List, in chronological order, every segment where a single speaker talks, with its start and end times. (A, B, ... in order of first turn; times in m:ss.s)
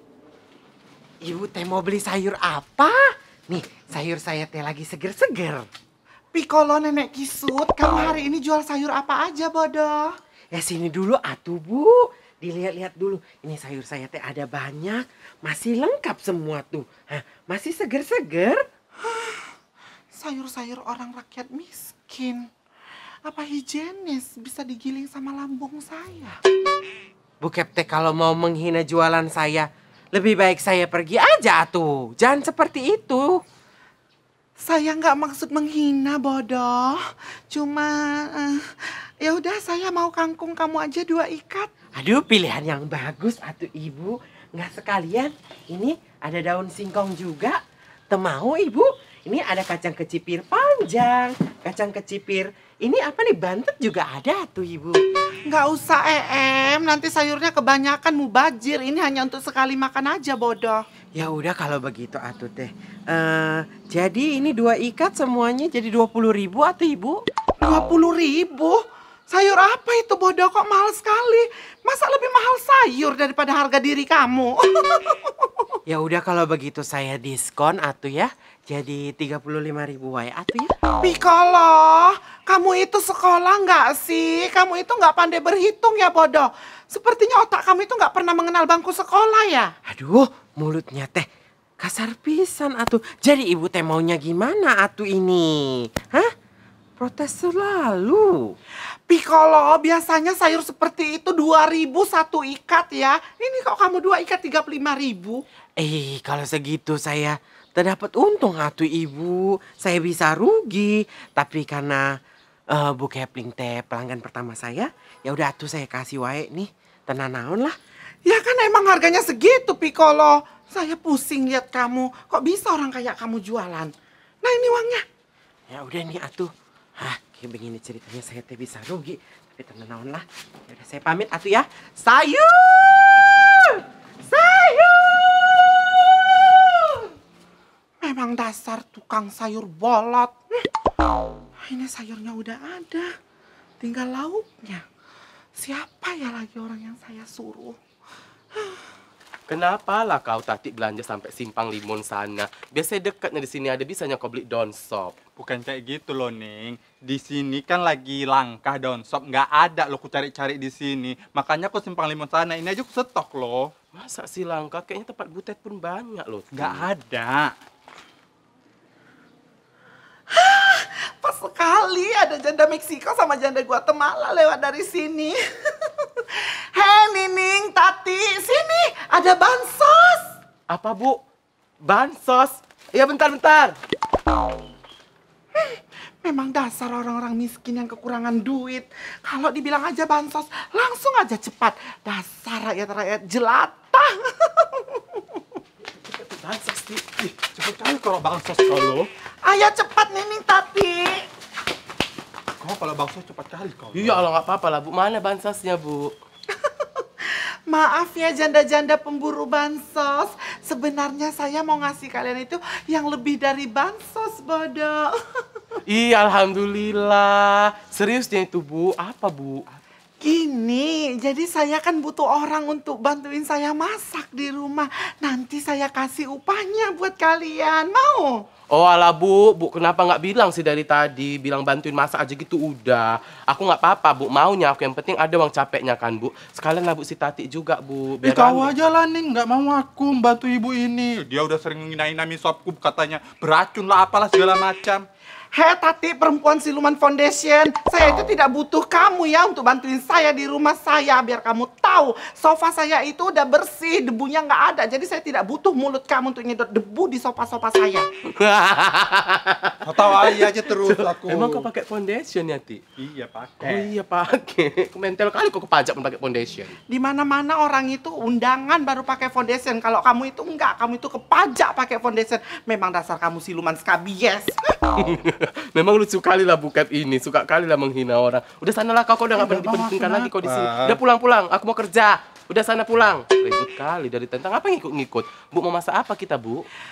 0:01.2-0:05.7 A
0:06.3-0:10.1 B
0:10.5-0:18.6 A
0:19.0-0:19.5 B
0:20.1-0:22.5 B
0:23.2-0:26.4 B
0:27.4-0:33.4 A
0:34.6-0:37.0 B
0:37.5-0:41.7 B
0:42.0-0:55.0 A
0:55.5-1:00.8 B
1:01.2-1:07.2 A
1:07.6-1:15.7 B
1:15.9-1:20.7 A
1:21.0-1:29.7 B
1:29.9-1:31.3 A
1:31.8-1:36.3 A
1:37.0-1:38.6 A
1:39.1-1:45.4 B
1:45.8-1:52.2 A
1:52.7-1:57.8 A
1:58.2-2:05.0 B
2:05.7-2:17.0 A
2:18.0-2:20.3 B
2:21.7-2:23.1 B
2:23.8-2:24.8 B
2:25.6-2:27.8 B
2:29.5-2:35.2 C
2:35.4-2:43.7 D
2:43.9-2:46.9 C
2:46.5-2:47.5 D
2:50.3-3:00.3 B
3:00.7-3:01.2 C
3:01.8-3:03.8 C
3:05.6-3:15.4 B
3:16.0-3:17.4 C
3:17.6-3:19.1 D
3:19.4-3:21.2 B
3:22.6-3:24.2 D
3:23.9-3:26.1 C
3:26.7-3:27.0 B
3:27.7-3:35.1 B
3:35.9-3:39.6 C
3:40.2-3:48.3 B
3:48.7-3:58.7 C
3:58.2-4:05.0 D
4:05.5-4:18.0 B
4:18.4-4:22.8 C
4:19.8-4:21.7 D
4:23.0-4:23.9 D
4:23.6-4:26.8 C
4:26.9-4:34.9 B
4:35.0-4:46.6 C
4:39.4-4:40.2 B
4:39.7-4:41.0 D